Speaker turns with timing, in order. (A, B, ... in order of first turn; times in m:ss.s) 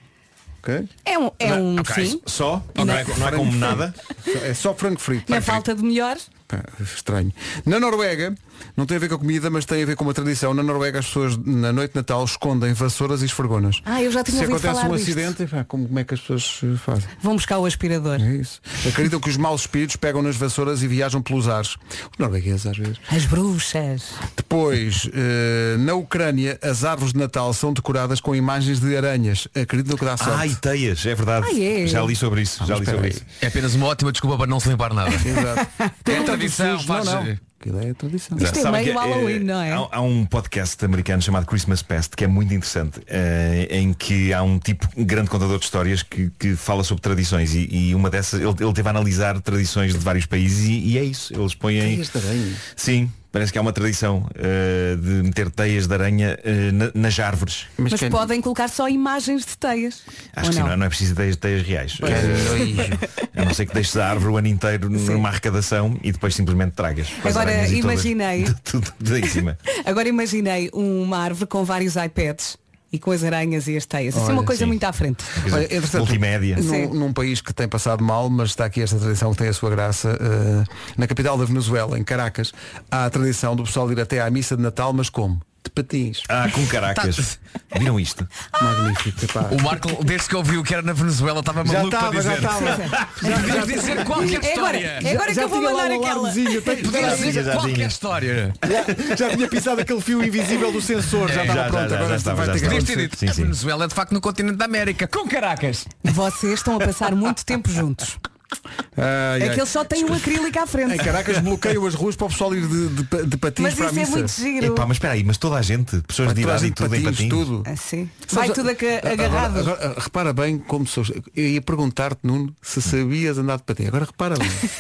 0:00.6-0:00.9 A
0:01.0-0:02.2 B
0:01.5-0:04.0 C
0:02.8-0:05.6 A
0:02.8-0:03.0 B
0:05.3-0:06.3 B
0:06.5-0:17.1 A
0:13.9-0:15.4 B
0:17.2-0:18.3 B
0:18.2-0:23.0 A
0:23.1-0:24.2 B
0:24.4-0:30.6 A
0:30.2-0:33.2 C
0:31.4-0:32.2 B
0:32.6-0:33.2 A
0:33.4-0:35.5 D
0:35.2-0:38.4 A
0:35.6-0:35.9 B
0:36.1-0:37.4 D
0:38.4-0:39.9 B
0:38.4-0:52.0 C
0:51.8-0:52.6 A
0:52.7-0:57.7 C
0:57.8-0:58.3 A
0:57.9-1:00.8 B
1:00.4-1:02.8 C
1:02.0-1:03.0 A
1:02.0-1:03.1 B
1:03.3-1:09.6 C
1:05.0-1:05.2 B
1:07.2-1:08.6 B
1:09.7-1:15.4 B
1:14.1-1:14.6 A
1:15.4-1:16.6 C
1:15.5-1:26.3 A
1:16.6-1:16.9 B
1:26.3-1:28.3 C
1:28.6-1:29.8 A
1:29.5-1:35.1 D
1:31.6-1:37.6 A
1:32.6-1:33.6 B
1:34.2-1:37.1 B
1:36.8-1:38.6 D
1:36.9-1:38.0 C
1:38.6-1:43.2 A
1:41.2-1:41.7 D
1:41.3-1:43.6 C
1:42.6-1:46.0 D
1:46.0-1:48.2 B
1:49.0-1:50.2 A
1:49.4-1:51.2 B
1:50.8-1:54.4 A
1:53.6-1:54.9 B
1:54.6-1:57.5 C
1:56.2-1:57.7 A
1:57.7-1:59.7 B
1:58.3-2:04.7 A